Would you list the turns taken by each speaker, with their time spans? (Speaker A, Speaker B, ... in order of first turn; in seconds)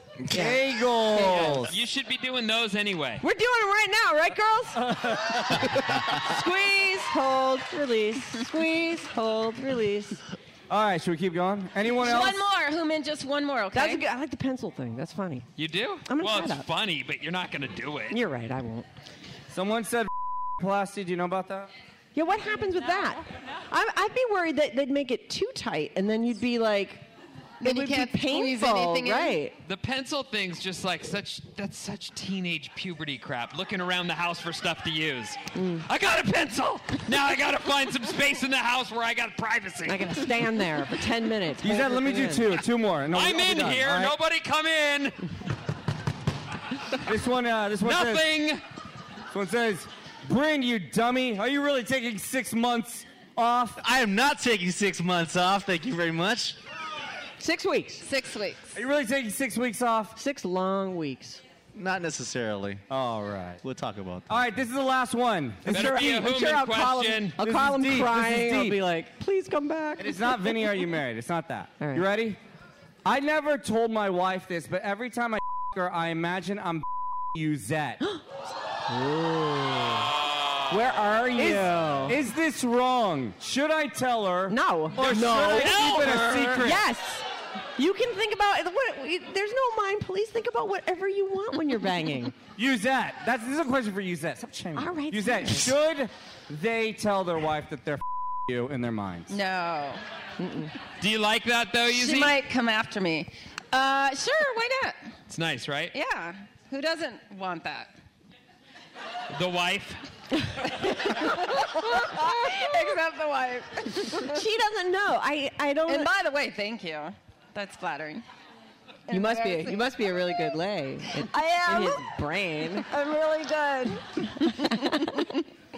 Speaker A: 0.3-1.7, 4.9-5.7, 10.7-12.4, 19.5-21.7, 41.6-44.1, 47.0-48.3, 49.3-53.8, 58.7-60.1, 62.9-63.6, 64.3-66.2, 67.4-68.8, 70.0-72.4, 73.0-78.0, 81.4-86.8, 92.6-99.3, 121.7-122.0
Speaker B: 0.3-0.6, 3.2-10.2, 13.7-15.5, 16.1-16.7, 18.1-18.9, 22.1-27.0, 27.6-29.6, 35.5-35.9, 39.9-42.5, 57.4-58.0, 60.1-61.4, 65.7-70.8, 71.8-72.1, 78.9-80.1, 80.7-82.2, 84.5-87.2, 87.8-92.4, 94.7-95.8, 100.4-100.7, 112.1-112.6, 114.2-116.1, 119.1-125.1
Speaker C: 1.4-3.2, 15.6-18.2, 29.6-40.3, 43.1-45.2, 47.8-48.6, 65.7-67.4, 80.3-81.0, 85.1-86.6, 101.0-102.4, 105.3-105.9, 109.3-110.0
Speaker D: 11.9-14.0, 27.6-29.4, 58.0-58.7, 99.3-100.0, 101.9-105.0, 105.9-107.9, 111.1-114.3, 115.9-118.2, 119.1-119.8, 121.5-121.8
Speaker E: 53.8-56.6, 61.7-62.8, 63.6-64.5